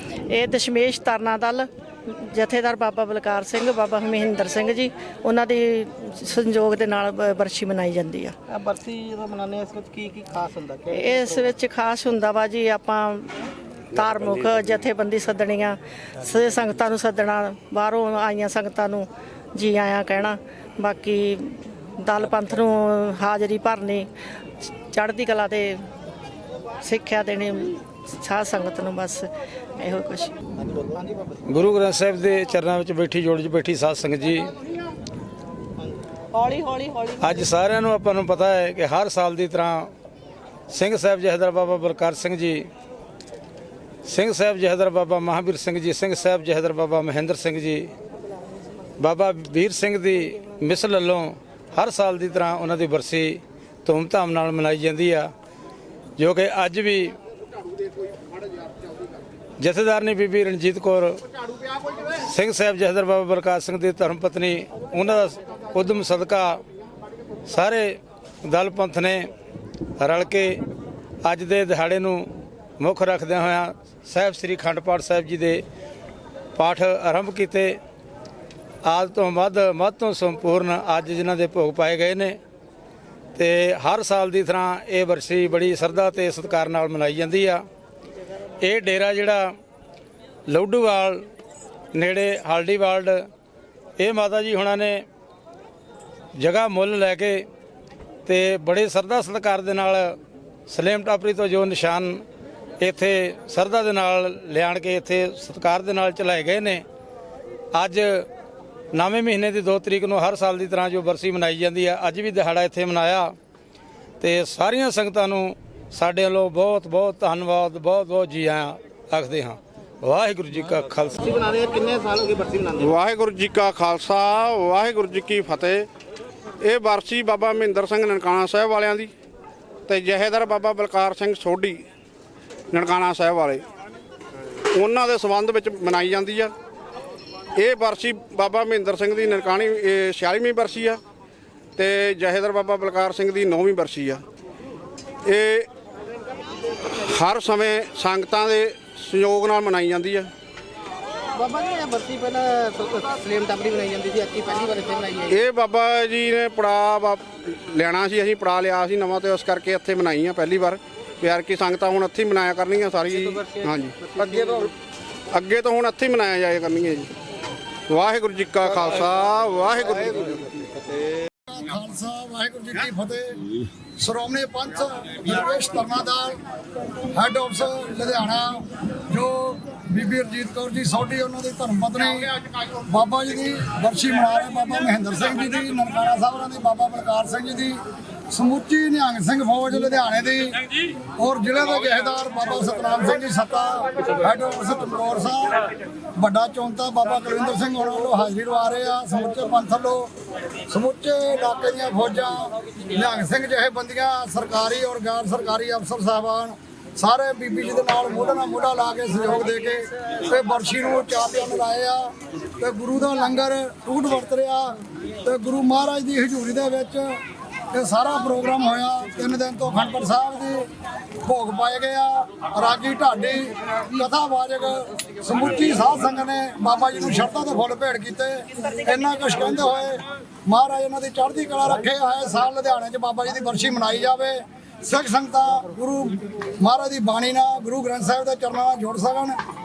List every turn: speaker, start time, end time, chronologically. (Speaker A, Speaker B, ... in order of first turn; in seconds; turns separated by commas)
Speaker A: 0.3-8.3, Speaker B: 8.5-10.9, Speaker A: 10.9-13.3, Speaker A: 13.9-24.1, Speaker A: 24.9-25.8, Speaker A: 26.8-29.3, Speaker A: 29.8-30.3, Speaker B: 30.8-31.2, Speaker C: 31.5-34.5, Speaker C: 37.2-39.9, Speaker C: 40.7-42.7, Speaker C: 44.0-47.9, Speaker C: 49.0-55.3, Speaker C: 56.2-57.1, Speaker C: 59.6-61.2, Speaker C: 62.1-66.6, Speaker C: 67.5-69.3, Speaker C: 70.0-70.6, Speaker C: 71.2-72.2, Speaker C: 72.8-75.6, Speaker C: 76.5-77.8, Speaker C: 78.9-82.4, Speaker C: 83.3-87.6, Speaker C: 88.6-89.5, Speaker C: 90.5-91.2, Speaker C: 91.9-93.2, Speaker C: 94.0-95.0, Speaker C: 96.4-97.5, Speaker C: 98.2-100.2, Speaker C: 100.7-102.2, Speaker C: 102.8-106.8, Speaker C: 107.7-108.2, Speaker C: 108.9-113.3, Speaker C: 114.2-121.3, Speaker B: 121.4-122.7, Speaker D: 122.8-125.9, Speaker D: 126.6-129.1, Speaker D: 129.9-131.8, Speaker D: 132.7-133.6, Speaker D: 134.7-136.5, Speaker D: 137.6-141.0, Speaker D: 141.8-144.2, Speaker D: 145.2-145.7, Speaker D: 147.1-150.3, Speaker B: 151.4-155.2, Speaker D: 155.3-164.7, Speaker D: 165.3-167.1, Speaker D: 167.9-170.4, Speaker E: 171.5-173.4, Speaker E: 174.0-176.4, Speaker E: 177.1-182.3, Speaker E: 182.9-187.8, Speaker E: 188.3-190.6, Speaker E: 191.2-195.6, Speaker E: 196.2-200.1, Speaker E: 200.7-217.2, Speaker E: 217.7-220.7, Speaker E: 221.2-239.4